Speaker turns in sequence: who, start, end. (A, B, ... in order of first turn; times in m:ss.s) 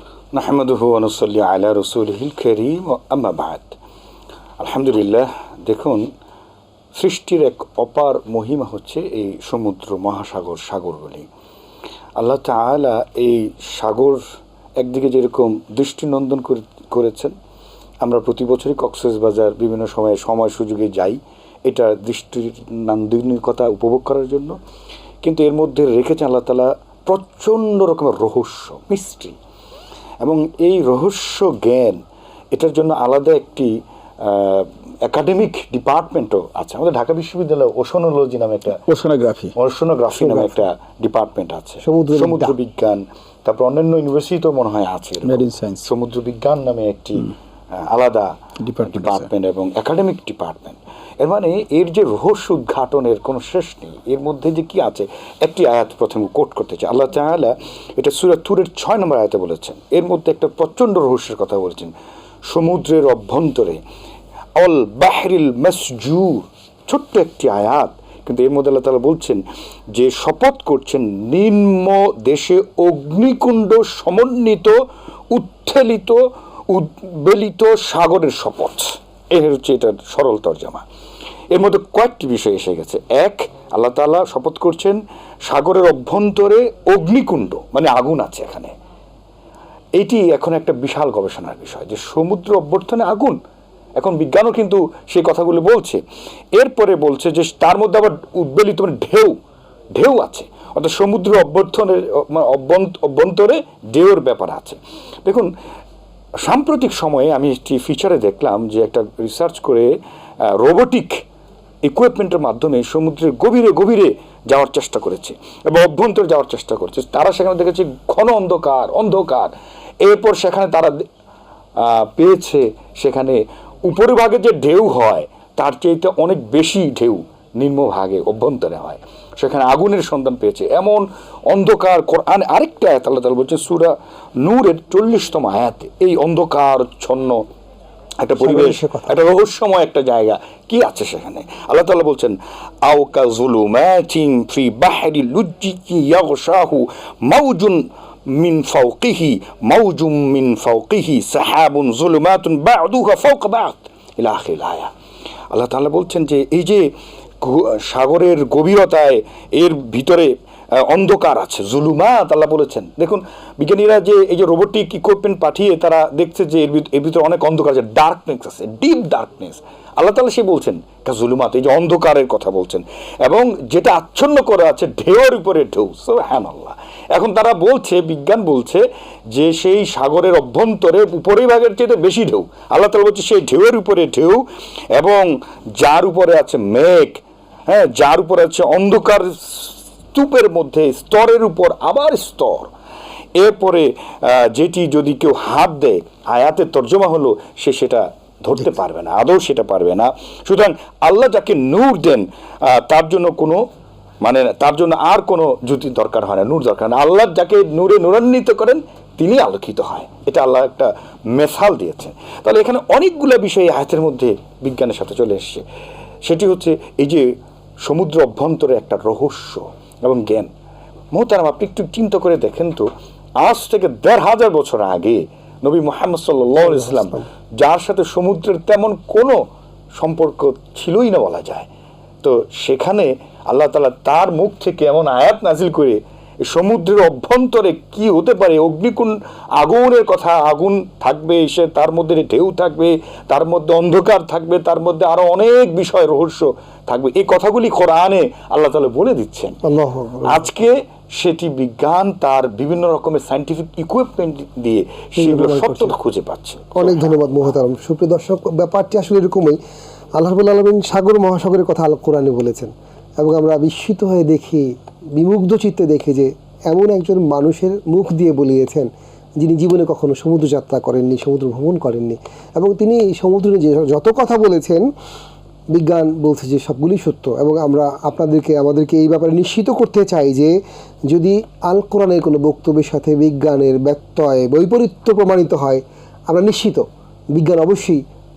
0:00.3-0:03.8 A
0:04.6-0:06.0 A
0:07.0-0:11.3 A
0:12.2-0:14.2 A
0:14.8-0:17.3 A
0:18.0-0:24.6 A
0:25.2-0:29.4 A
0:30.2-0:32.0 A
0:32.5-0:33.7 A
0:34.2-0:38.8 A
0:38.8-0:39.5 B
0:39.6-0:48.3 A
0:40.2-0:40.6 C
0:41.8-0:42.6 C
0:45.2-0:45.9 B
0:48.6-0:49.3 B
0:48.8-1:01.9 A
1:02.5-1:03.8 A
1:04.6-1:09.4 A
1:10.0-1:14.7 A
1:15.3-1:16.2 A
1:16.7-1:20.8 A
1:21.5-1:28.7 A
1:30.0-1:33.4 A
1:34.0-1:36.0 A
1:36.6-1:39.4 A
1:40.0-1:45.5 A
1:46.4-1:49.9 A
1:50.6-1:51.2 A
1:51.8-2:01.0 A
2:01.8-2:17.4 A
2:18.2-2:34.9 A
2:18.4-2:19.2 C
2:35.5-2:36.9 A
2:37.4-3:04.4 A
3:04.9-3:12.7 A
3:13.4-3:23.6 A
3:24.2-3:35.6 A
3:36.2-3:37.2 A
3:37.8-3:40.5 A
3:41.1-3:42.9 A
3:43.4-3:49.4 A
3:46.6-3:47.2 C
3:50.0-3:51.7 A
3:52.2-4:09.6 A
4:09.6-4:10.5 C
4:10.3-4:17.1 A
4:15.2-4:15.9 C
4:16.8-4:19.6 C
4:20.2-4:34.9 C
4:35.7-4:40.5 C
4:41.1-4:48.0 C